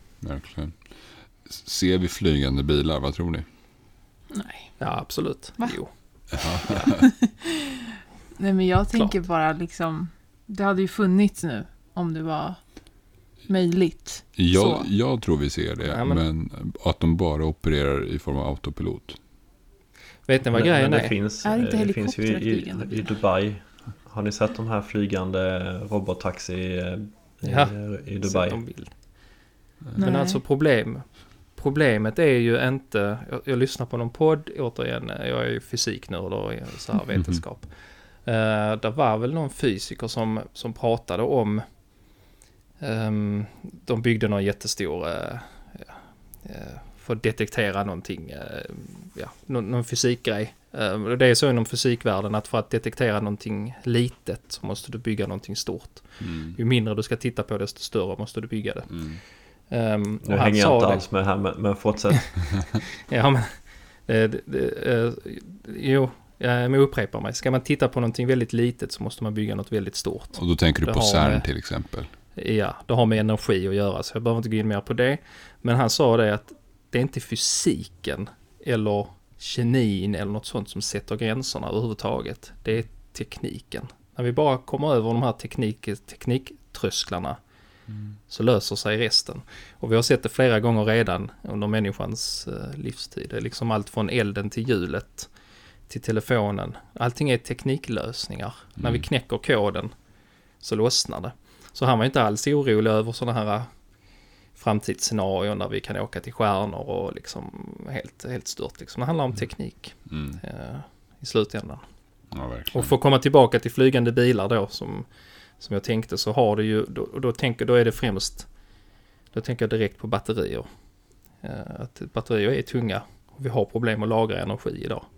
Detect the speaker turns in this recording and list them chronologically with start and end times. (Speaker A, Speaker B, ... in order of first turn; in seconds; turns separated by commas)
Speaker A: 0.2-3.5, Speaker B: 4.3-4.9, Speaker C: 4.8-6.9, Speaker A: 6.4-7.1, Speaker B: 6.4-7.5, Speaker B: 8.4-12.9, Speaker B: 13.4-14.9, Speaker A: 14.3-19.2, Speaker C: 15.8-16.2, Speaker C: 20.2-21.1, Speaker D: 20.5-28.6, Speaker B: 21.4-23.1, Speaker C: 27.4-28.9, Speaker B: 29.9-30.4, Speaker C: 30.0-41.8, Speaker A: 37.1-37.4, Speaker C: 42.8-61.0, Speaker A: 56.2-56.6, Speaker A: 58.9-59.2, Speaker D: 60.2-62.4, Speaker C: 63.1-71.5, Speaker A: 70.3-72.1, Speaker C: 72.3-87.4, Speaker A: 87.9-88.2, Speaker C: 88.3-95.3, Speaker C: 95.9-99.9, Speaker A: 98.8-99.0, Speaker C: 100.6-103.7, Speaker C: 104.5-111.8, Speaker A: 109.3-110.4, Speaker A: 112.3-112.9, Speaker C: 112.7-118.5, Speaker C: 119.3-120.7, Speaker C: 121.3-125.1